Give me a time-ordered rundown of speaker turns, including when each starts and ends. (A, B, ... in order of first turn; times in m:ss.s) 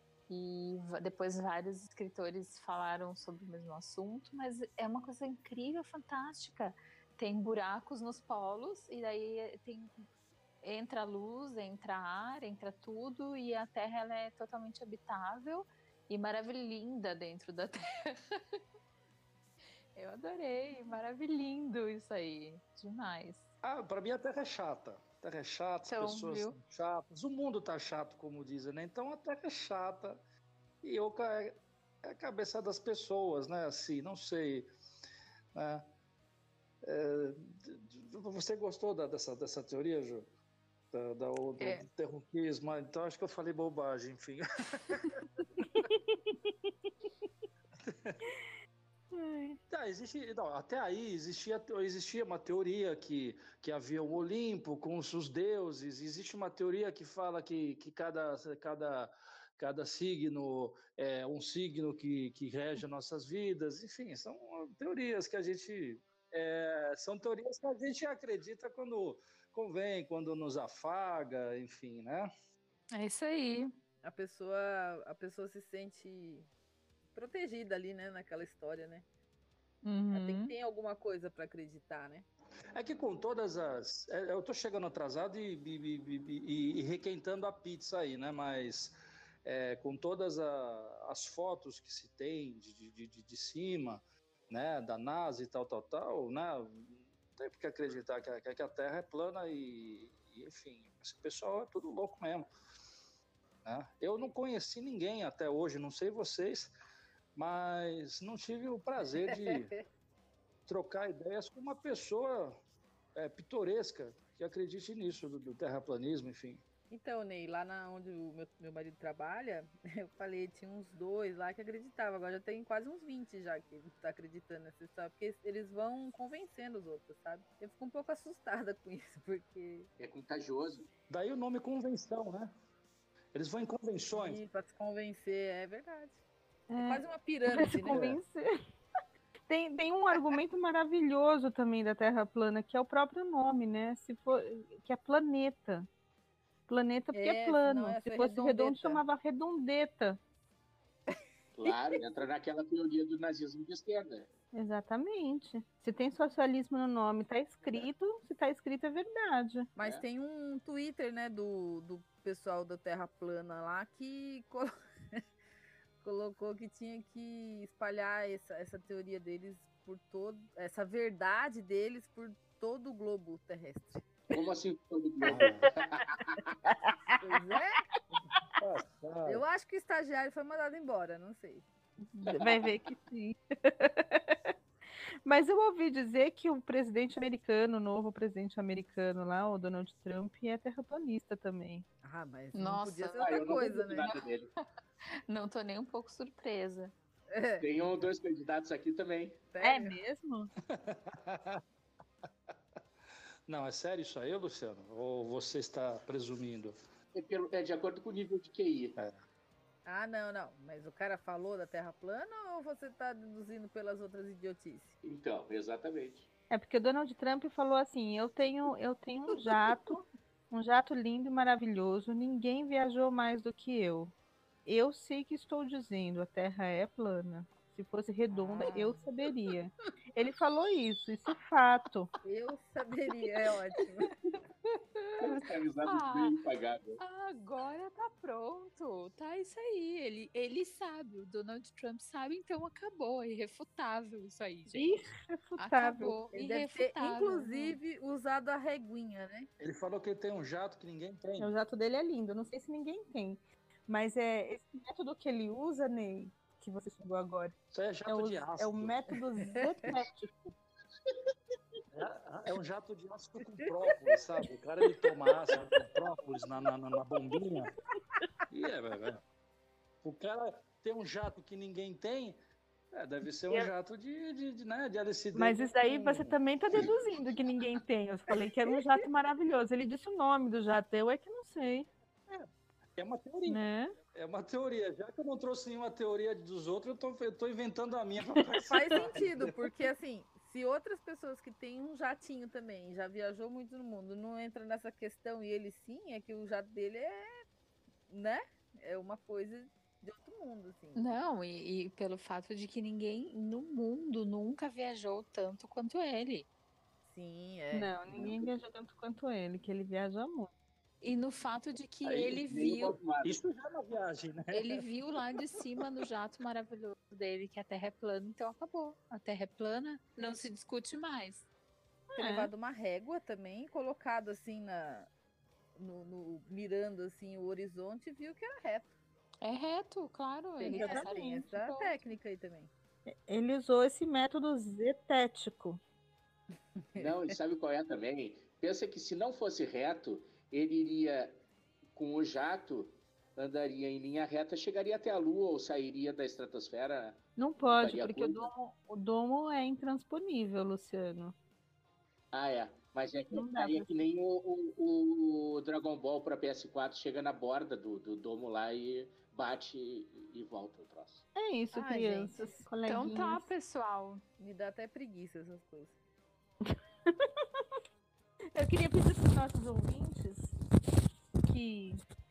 0:00.3-0:10.1 A
0:10.6-0:18.6 A
0:20.0-0:23.5 A
0:23.6-0:30.2 B
0:25.8-0:26.5 A
0:30.8-0:34.7 B
0:35.5-0:35.9 B
0:36.8-0:40.3 B
0:40.9-0:45.2 B
0:45.6-0:46.5 C
0:47.8-0:48.2 B
0:49.1-0:49.6 C
0:49.7-1:12.3 B
1:12.9-1:13.7 A
1:14.0-1:16.5 D
1:17.1-1:19.0 D
1:19.8-1:20.5 A
1:20.1-1:22.3 D
1:22.7-1:42.5 B
1:43.6-1:46.7 B
1:47.3-1:49.7 B
1:49.3-1:49.8 D
1:50.7-1:52.6 B
1:53.1-1:56.6 B
1:56.9-2:09.9 D
2:10.0-2:10.9 E
2:11.1-2:12.5 B
2:13.3-2:14.4 B
2:14.1-2:16.2 D
2:16.7-2:18.5 C
2:16.8-2:18.0 D
2:17.9-2:18.2 B
2:19.5-2:25.9 C
2:26.7-2:30.2 C
2:27.1-2:29.0 D
2:31.5-2:34.3 E
2:34.5-2:39.7 C
2:39.8-2:45.2 D
2:39.8-2:40.0 E
2:46.0-2:54.1 D
2:54.3-2:56.7 E
2:55.2-2:55.7 B
2:57.2-2:57.8 D
2:58.6-2:59.4 B
2:59.2-3:01.6 D
3:02.2-3:04.5 C
3:05.2-3:11.8 C
3:12.0-3:14.1 D
3:12.5-3:14.2 A
3:13.2-3:14.5 E
3:15.3-3:16.9 A
3:17.3-3:17.6 D
3:17.6-3:19.4 E
3:19.5-3:19.9 D
3:19.6-3:20.5 C
3:20.7-3:21.6 B
3:23.5-3:26.8 B
3:27.1-3:28.9 E
3:29.0-3:29.2 B
3:29.8-3:35.0 D
3:35.0-3:36.3 E
3:36.5-3:44.1 C
3:44.6-3:52.1 C
3:48.6-3:49.0 A
3:52.2-3:54.1 D
3:54.6-3:56.3 A
3:55.2-3:57.0 E
3:57.0-4:05.0 A
4:04.7-4:06.2 C
4:05.6-4:07.8 A
4:06.4-4:09.5 D
4:09.6-4:11.5 B
4:11.4-4:17.5 C
4:17.7-4:19.0 B
4:18.0-4:20.5 C
4:19.5-4:19.9 D
4:21.9-4:27.7 B
4:28.5-4:29.2 B
4:30.0-4:32.4 B
4:32.9-4:37.0 B
4:35.3-4:41.9 C
4:42.3-4:43.6 B
4:43.4-4:43.9 C
4:44.1-4:49.6 B
4:48.7-4:57.3 D
4:58.1-5:01.1 D
5:00.9-5:06.5 A
5:07.0-5:07.9 D
5:07.7-5:10.5 C
5:08.1-5:08.5 E
5:11.0-5:13.0 A
5:12.0-5:13.4 E
5:13.2-5:14.8 B
5:14.5-5:21.5 A
5:22.1-5:22.5 C
5:22.2-5:25.1 D
5:25.7-5:28.9 D
5:29.4-5:31.9 A
5:30.6-5:32.7 D
5:30.7-5:31.4 C
5:33.1-5:35.8 C
5:36.9-5:37.3 D
5:37.0-5:41.4 E
5:41.9-5:48.5 E
5:47.4-5:51.3 C
5:52.3-6:01.2 E
5:53.3-5:53.9 C
6:01.3-6:03.5 C
6:01.7-6:02.5 D
6:02.8-6:04.2 A
6:04.4-6:06.0 D
6:06.7-6:07.6 C
6:08.5-6:10.5 C
6:11.5-6:12.0 C